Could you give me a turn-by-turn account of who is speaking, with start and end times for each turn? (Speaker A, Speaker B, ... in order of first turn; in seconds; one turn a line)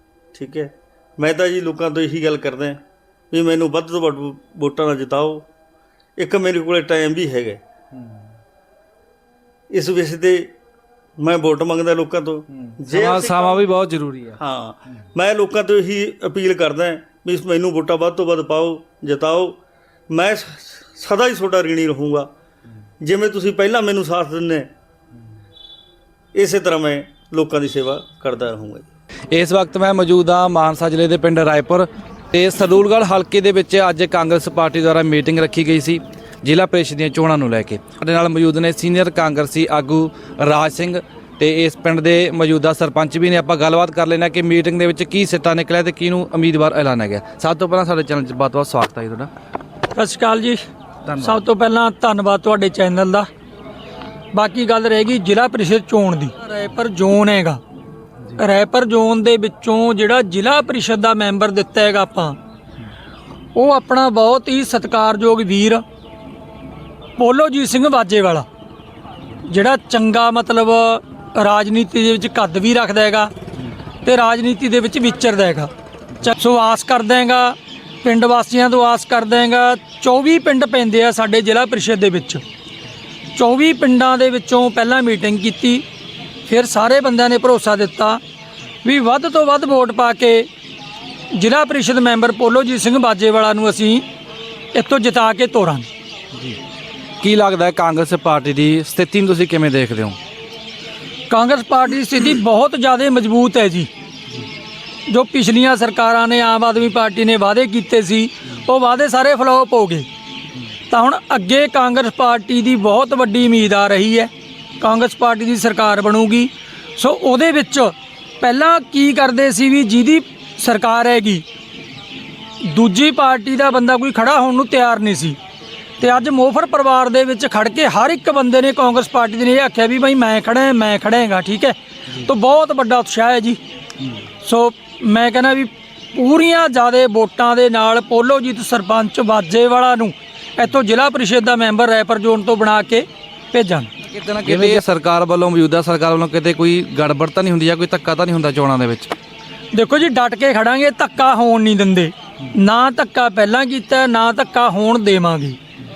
Speaker A: 0.3-2.8
Speaker A: 3.3-5.4
Speaker A: 6.2-7.6
Speaker B: 8.0-8.2
Speaker A: 9.7-10.5
Speaker A: 11.2-13.6
Speaker B: 12.5-14.4
Speaker A: 14.4-19.6
Speaker A: 20.1-22.3
Speaker A: 23.0-24.7
Speaker A: 26.4-28.8
Speaker B: 29.3-49.3
Speaker C: 49.9-50.6
Speaker B: 51.0-51.4
Speaker C: 51.2-53.3
Speaker C: 54.3-57.6
Speaker C: 58.4-62.4
Speaker C: 63.5-65.8
Speaker C: 67.2-68.5
Speaker C: 69.5-73.3
Speaker C: 74.0-75.7
Speaker C: 76.2-82.4
Speaker C: 83.3-85.8
Speaker C: 86.5-88.2
Speaker C: 88.8-90.5
Speaker C: 91.3-94.1
Speaker C: 94.7-95.9
Speaker B: 97.2-100.2
Speaker C: 101.3-103.9
Speaker C: 105.1-110.1
Speaker C: 110.9-121.4
Speaker C: 122.7-125.4
Speaker C: 126.0-133.6
Speaker C: 134.4-143.9
Speaker B: 144.1-149.1
Speaker C: 144.5-144.8
Speaker C: 149.7-155.6